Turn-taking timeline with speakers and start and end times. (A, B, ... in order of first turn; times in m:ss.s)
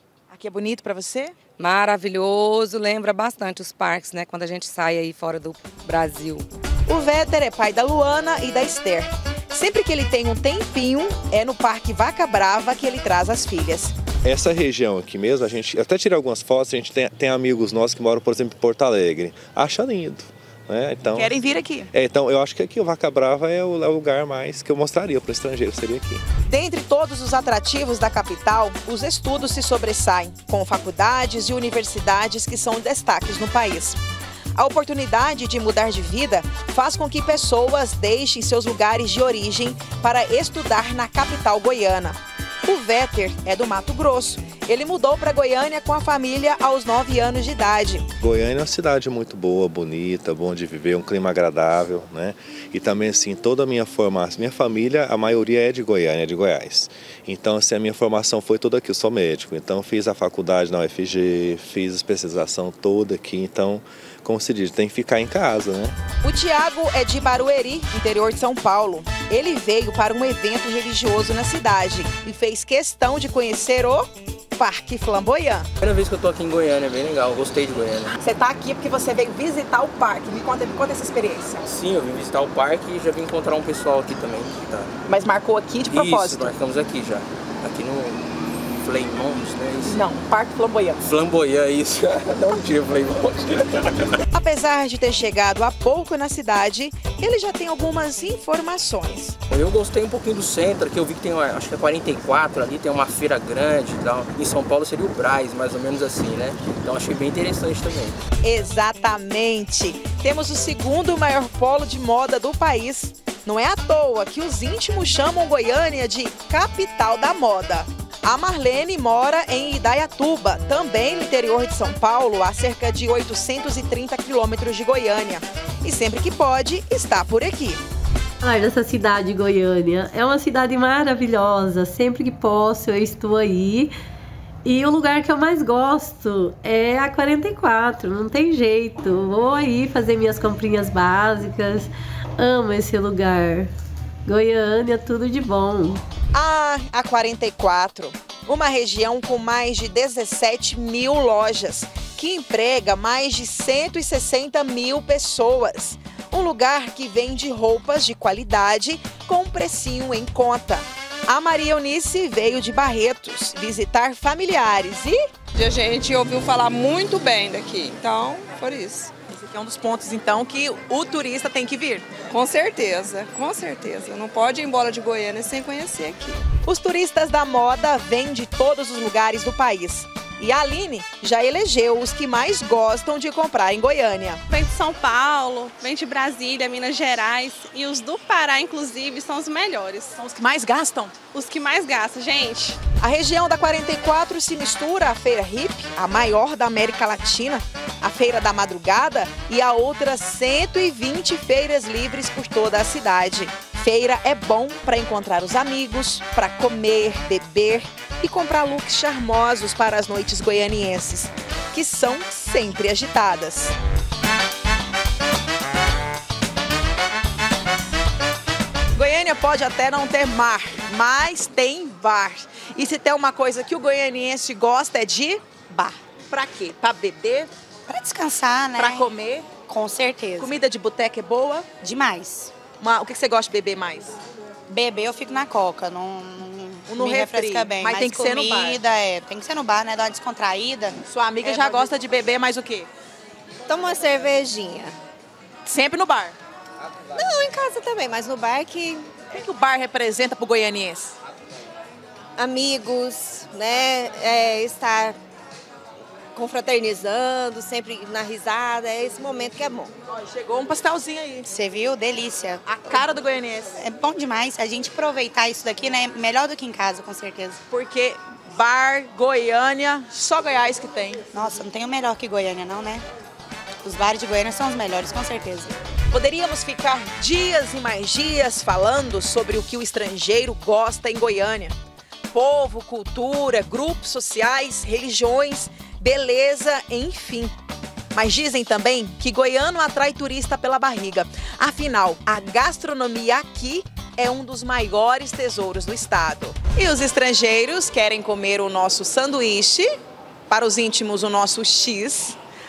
0:00.3-0:01.4 A
0:01.6-0:06.5 B
0:06.9-0:13.9 A
0:14.2-0:21.4 C
0:21.1-0:21.9 A
0:21.9-0:26.2 C
0:26.5-0:34.0 A
0:34.6-0:48.1 A
0:48.2-1:06.0 C
1:06.2-1:15.7 A
1:15.8-1:18.1 D
1:18.2-1:21.7 A
1:21.7-1:24.9 D
1:25.1-1:26.5 A
1:25.9-1:28.2 D
1:28.8-1:29.9 D
1:29.8-1:31.0 A
1:31.0-1:33.9 D
1:34.3-1:39.4 A
1:39.5-1:48.2 D
1:48.4-2:07.8 A
2:08.4-2:13.9 E
2:14.7-2:23.7 E
2:24.3-2:26.0 E
2:26.3-2:45.2 A
2:45.6-2:49.1 F
2:49.3-2:52.1 A
2:52.3-2:56.4 F
2:56.6-3:04.4 A
3:04.5-3:10.1 G
3:10.2-3:11.2 A
3:11.3-3:12.8 G
3:13.0-3:33.8 A
3:39.0-3:47.5 A
3:47.9-3:49.1 H
3:48.7-3:49.5 A
3:49.7-3:50.6 H
3:50.4-3:51.7 A
3:51.8-3:52.5 H
3:52.8-3:54.1 A
3:54.7-4:01.6 H
3:56.9-3:58.8 A
4:01.0-4:02.9 A
4:03.7-4:04.9 I
4:05.7-4:06.4 A
4:07.2-4:09.1 I
4:09.3-4:11.2 A
4:12.4-4:15.2 I
4:16.4-4:19.9 I
4:20.1-4:21.5 A
4:21.5-4:22.7 H
4:22.7-4:23.8 A
4:23.8-4:27.6 H
4:27.7-4:31.2 A
4:31.3-4:33.0 H
4:33.8-4:35.7 H
4:36.1-4:41.7 A
4:42.3-4:47.6 A
4:48.1-4:59.9 A
5:00.5-5:02.4 A